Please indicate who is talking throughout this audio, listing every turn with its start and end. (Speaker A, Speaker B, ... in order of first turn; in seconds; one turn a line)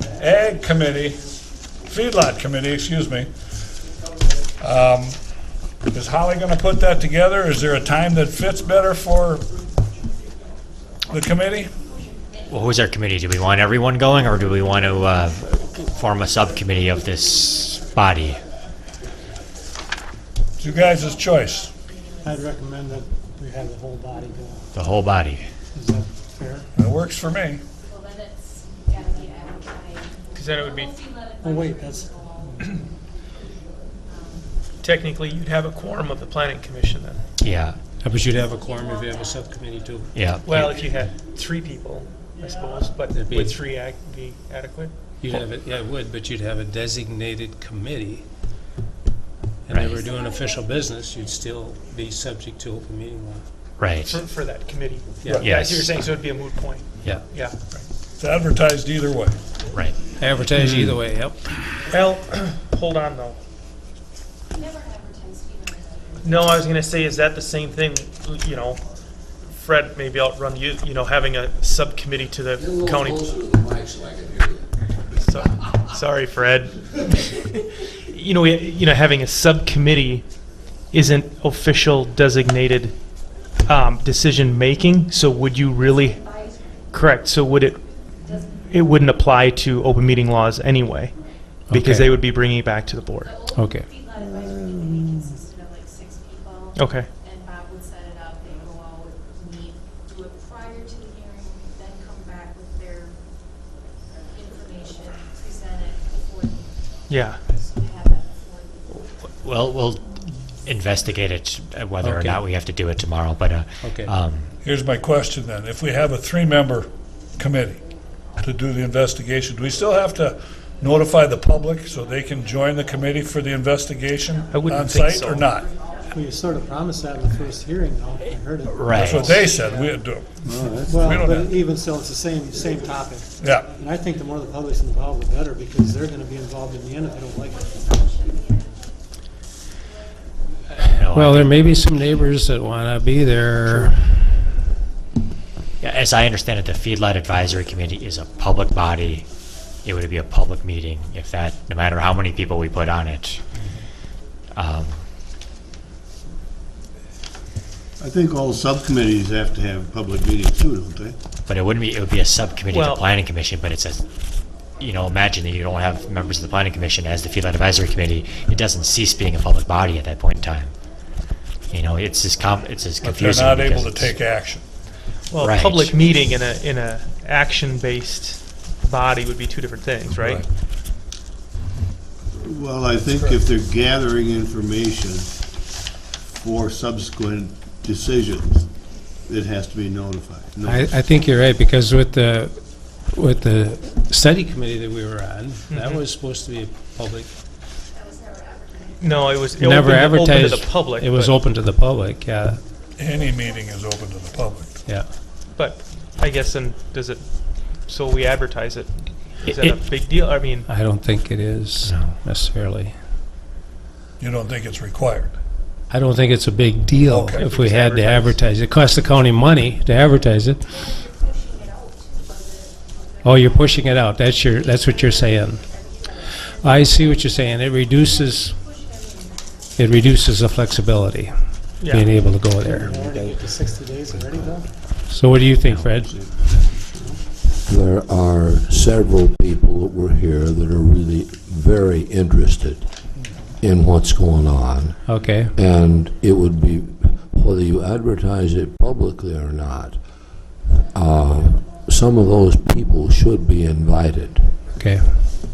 Speaker A: 0.2-1.2
Speaker A: 1.9-3.3
Speaker A: 4.6-5.2
Speaker A: 5.9-9.5
Speaker A: 11.1-11.7
Speaker B: 12.5-18.4
Speaker A: 20.6-21.7
Speaker C: 22.2-24.8
Speaker B: 24.7-25.4
Speaker C: 25.7-26.7
Speaker A: 26.8-27.6
Speaker D: 28.3-32.0
Speaker E: 30.3-31.0
Speaker C: 31.4-32.6
Speaker E: 34.8-37.2
Speaker B: 37.4-37.8
Speaker F: 38.0-40.1
Speaker B: 40.1-40.8
Speaker E: 40.5-44.9
Speaker F: 43.1-43.6
Speaker F: 45.2-48.3
Speaker F: 49.7-53.4
Speaker B: 49.7-50.1
Speaker B: 53.8-54.2
Speaker E: 54.0-57.8
Speaker B: 55.4-56.2
Speaker A: 58.2-59.4
Speaker B: 59.7-60.0
Speaker F: 60.2-61.4
Speaker E: 61.9-63.4
Speaker D: 64.6-66.6
Speaker E: 66.2-68.8
Speaker E: 69.5-73.3
Speaker G: 72.6-74.6
Speaker E: 75.2-80.3
Speaker E: 80.9-83.0
Speaker E: 83.7-86.3
Speaker D: 85.8-87.0
Speaker E: 86.9-87.8
Speaker D: 88.6-89.0
Speaker E: 88.7-91.2
Speaker F: 91.7-92.1
Speaker E: 91.7-93.4
Speaker D: 93.2-103.2
Speaker F: 93.5-93.9
Speaker H: 94.3-95.3
Speaker E: 96.7-97.1
Speaker D: 104.3-106.8
Speaker E: 107.1-107.4
Speaker D: 107.5-109.1
Speaker B: 109.2-114.5
Speaker F: 112.0-112.4
Speaker F: 113.8-114.1
Speaker A: 114.6-117.8
Speaker A: 118.4-125.7
Speaker E: 124.5-125.5
Speaker C: 126.1-129.6
Speaker B: 128.7-129.4
Speaker A: 128.9-130.4
Speaker E: 129.6-129.9
Speaker H: 130.4-131.2
Speaker C: 130.8-137.8
Speaker A: 131.0-131.6
Speaker A: 133.4-133.7
Speaker D: 137.9-138.6
Speaker B: 140.8-141.5
Speaker F: 141.0-144.2
Speaker B: 145.8-149.3
Speaker B: 149.8-153.4
Speaker B: 154.6-155.0
Speaker H: 158.0-161.2
Speaker B: 161.5-164.1
Speaker E: 162.7-163.0
Speaker B: 164.8-170.7
Speaker B: 171.7-174.1
Speaker A: 173.0-174.7
Speaker E: 175.3-180.4
Speaker B: 175.4-176.2
Speaker A: 180.1-180.5
Speaker H: 182.4-185.3
Speaker A: 183.1-183.4
Speaker H: 186.2-188.7
Speaker H: 189.2-190.9
Speaker F: 190.7-197.3
Speaker E: 195.7-196.0
Speaker D: 198.0-199.5
Speaker E: 199.0-201.3
Speaker F: 199.6-202.6
Speaker A: 203.0-204.8
Speaker E: 205.6-207.2
Speaker E: 207.8-210.7
Speaker F: 210.7-213.0
Speaker B: 211.8-212.2
Speaker A: 214.2-215.3
Speaker F: 215.9-220.8
Speaker A: 217.1-217.4
Speaker E: 217.4-218.4
Speaker D: 221.6-222.4
Speaker F: 223.2-228.6
Speaker D: 224.9-226.1
Speaker D: 226.7-227.2
Speaker D: 228.7-229.3
Speaker F: 229.8-232.9
Speaker E: 231.8-232.2
Speaker C: 232.8-234.7
Speaker F: 235.0-236.6
Speaker H: 236.0-236.4
Speaker G: 237.6-242.9
Speaker G: 243.6-250.0
Speaker F: 245.1-245.5
Speaker G: 250.9-254.6
Speaker F: 254.8-255.3